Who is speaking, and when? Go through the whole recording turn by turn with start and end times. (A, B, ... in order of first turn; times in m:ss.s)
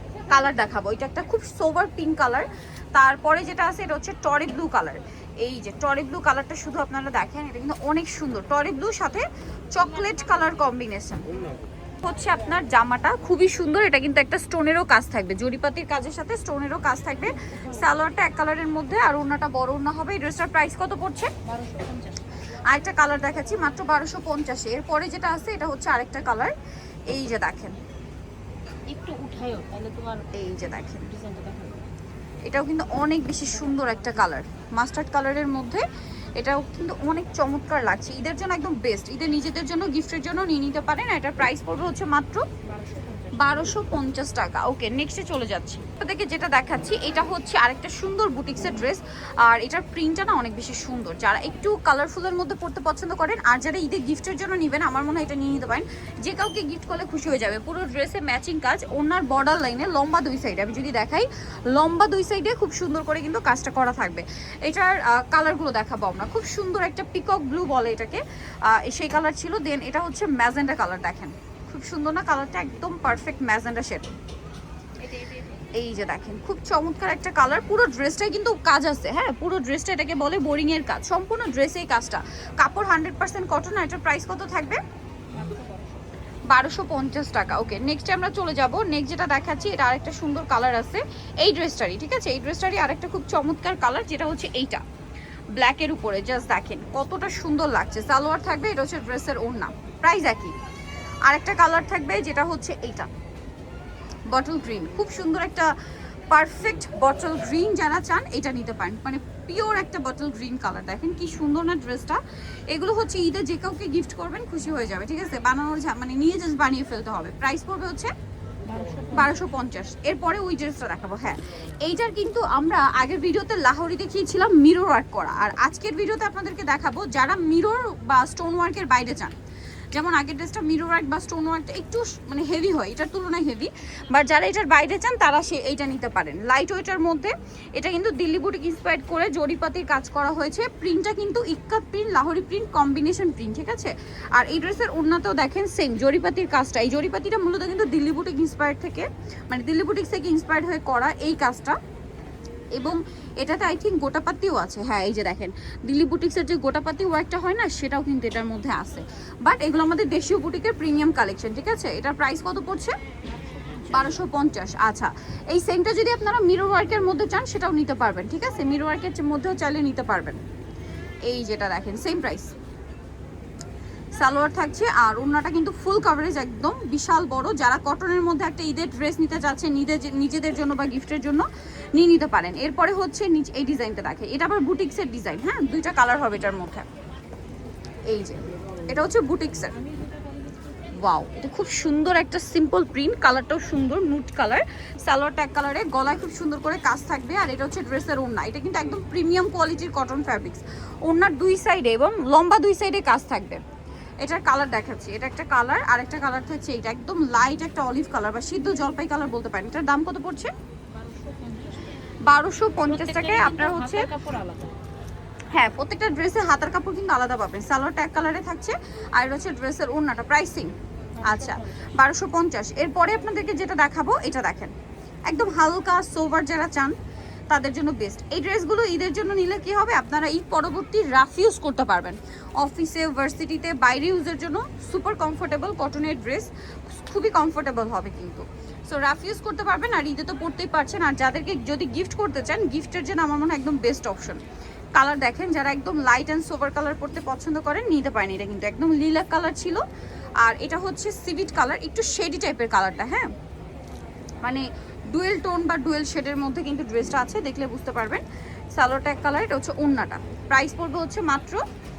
0:00.3-0:11.2 A
0:12.0-0:21.3 A
0:21.4-0:22.3 B
0:22.7-0:26.5 A
0:27.1-0:27.8 A
0:28.9-0:30.3 B
0:30.3-0:31.1 A
0:31.0-0:31.9 B
0:32.5-0:35.8 A
0:36.4-0:42.5 A
0:42.8-0:43.5 B
0:43.4-1:14.1 A
1:15.0-1:15.6 B
1:15.8-1:24.8 A
1:25.3-1:26.0 B
1:26.5-1:34.8 A
1:35.6-1:40.6 A
1:41.3-1:43.1 A
1:44.3-1:45.7 A
1:46.3-1:58.1 A
1:58.7-1:59.4 B
1:59.1-2:09.3 A
2:09.9-2:31.8 A
2:32.7-2:42.9 A
2:43.4-2:44.1 B
2:43.9-2:50.4 A
2:51.3-2:52.5 A
2:54.2-3:06.9 A
3:08.1-3:09.7 A
3:11.0-3:23.6 A
3:24.2-3:30.5 A
3:31.0-3:31.9 B
3:32.2-3:34.1 A
3:32.8-3:34.8 B
3:35.5-3:44.7 A
3:41.2-3:41.9 B
3:45.3-3:47.0 A
3:47.5-4:04.4 A
4:05.0-4:09.8 A
4:10.4-4:13.3 A
4:14.4-4:21.6 A